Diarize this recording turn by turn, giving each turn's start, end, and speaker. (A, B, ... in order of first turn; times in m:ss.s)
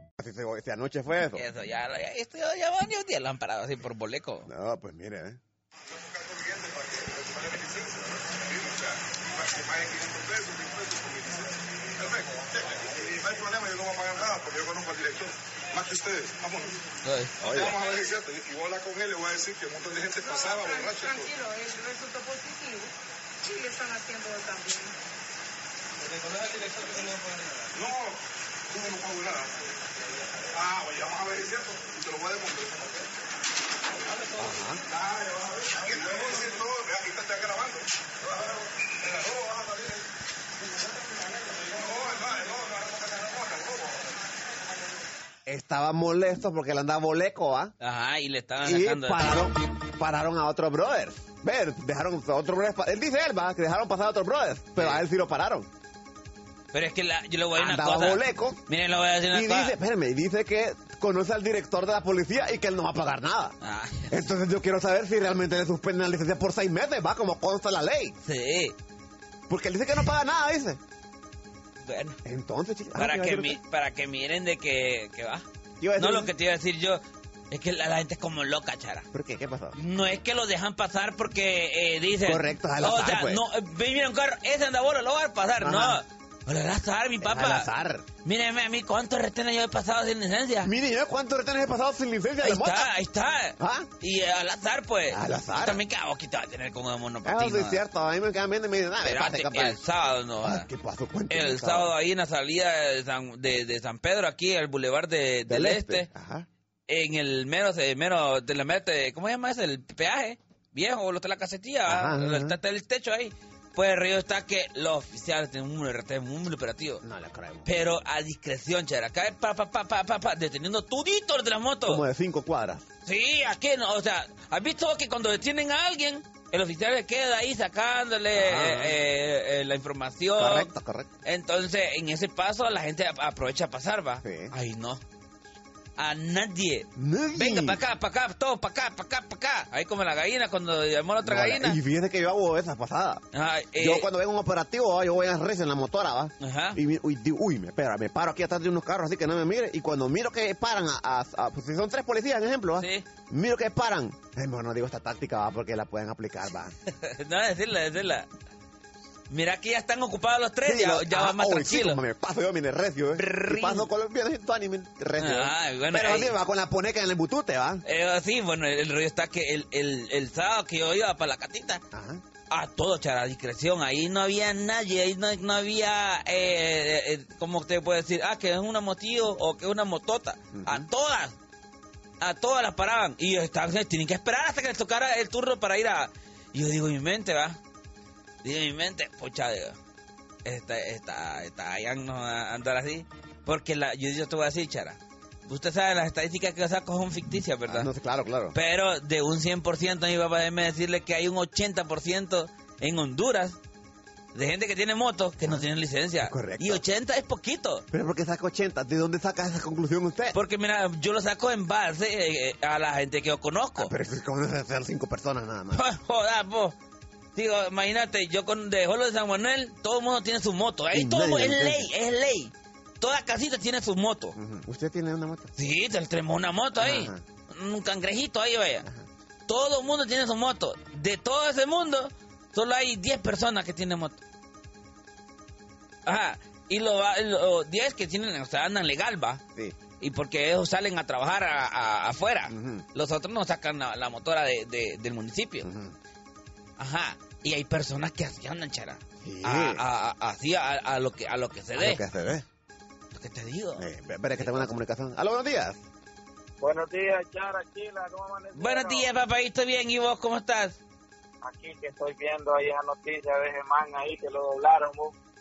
0:00.2-0:01.4 A
0:01.3-0:04.5 B
0:04.4-0:05.4 A
0:05.9-0:16.8 C
0:17.0-0:17.4 B
0:17.4-0:21.3 C
0:17.4-0:17.7 A
0:20.2-0:22.9 D
0:23.4-0:24.9 D
0:27.7-0:29.6 C
0:30.5-0:33.1 C
0:34.4-0:34.8 A
0:34.8-0:40.0 C
0:40.7-0:44.2 C
0:45.5-0:47.7 A
0:47.8-0:49.4 B
0:48.6-0:55.7 A
0:56.7-0:59.7 B
0:57.6-0:58.6 A
0:59.3-1:03.5 A
1:03.6-1:04.2 B
1:04.1-1:08.2 A
1:08.2-1:08.8 B
1:09.5-1:10.8 A
1:11.8-1:12.2 B
1:12.2-1:13.6 A
1:13.0-1:15.4 B
1:15.8-1:16.3 A
1:16.0-1:17.0 B
1:17.5-1:19.0 B
1:19.1-1:19.8 A
1:19.8-1:27.7 B
1:22.2-1:23.4 A
1:25.6-1:26.0 A
1:27.2-1:28.0 A
1:28.2-1:30.7 B
1:30.6-1:32.9 A
1:32.4-1:37.8 B
1:33.6-1:33.9 A
1:35.1-1:35.8 A
1:37.2-1:39.8 A
1:39.0-1:40.7 B
1:40.4-1:41.9 A
1:41.3-1:46.1 B
1:45.5-1:46.5 A
1:46.9-1:57.0 B
1:51.9-1:52.6 A
1:57.0-1:57.7 A
1:57.7-2:02.0 B
2:01.9-2:02.8 A
2:03.0-2:10.7 B
2:08.3-2:09.0 A
2:10.4-2:11.1 A
2:11.2-2:15.0 B
2:14.2-2:14.5 A
2:16.0-2:21.8 B
2:17.0-2:17.8 A
2:21.2-2:23.2 A
2:23.3-2:24.0 B
2:23.8-2:36.7 A
2:26.4-2:26.8 B
2:32.8-2:33.0 B
2:37.0-2:38.3 B
2:39.3-2:42.0 B
2:40.7-2:47.8 A
2:43.2-2:43.9 B
2:45.2-2:46.3 B
2:47.8-2:51.8 B
2:51.9-2:52.2 A
2:52.5-3:01.3 B
3:00.5-3:00.9 A
3:02.2-3:07.6 B
3:08.4-3:09.8 B
3:10.4-3:17.9 B
3:17.7-3:18.6 A
3:18.5-3:23.6 B
3:24.3-3:27.8 B
3:26.2-3:26.8 A
3:27.9-3:30.4 A
3:30.3-3:33.9 B
3:33.8-3:35.8 A
3:35.7-3:36.8 B
3:37.3-3:44.3 B
3:40.9-3:41.9 A
3:44.4-3:45.5 A
3:45.6-3:48.8 B
3:46.8-3:47.2 A
3:49.5-3:54.2 B
3:56.1-3:59.4 B
4:00.0-4:05.7 B
4:02.5-4:02.8 A
4:05.6-4:06.0 A
4:06.8-4:12.0 B
4:09.2-4:09.8 A
4:11.8-4:12.4 A
4:13.1-4:13.8 B
4:13.8-4:15.8 A
4:14.4-4:14.7 B
4:16.6-4:19.1 E
4:18.6-4:20.8 B
4:21.4-4:25.1 E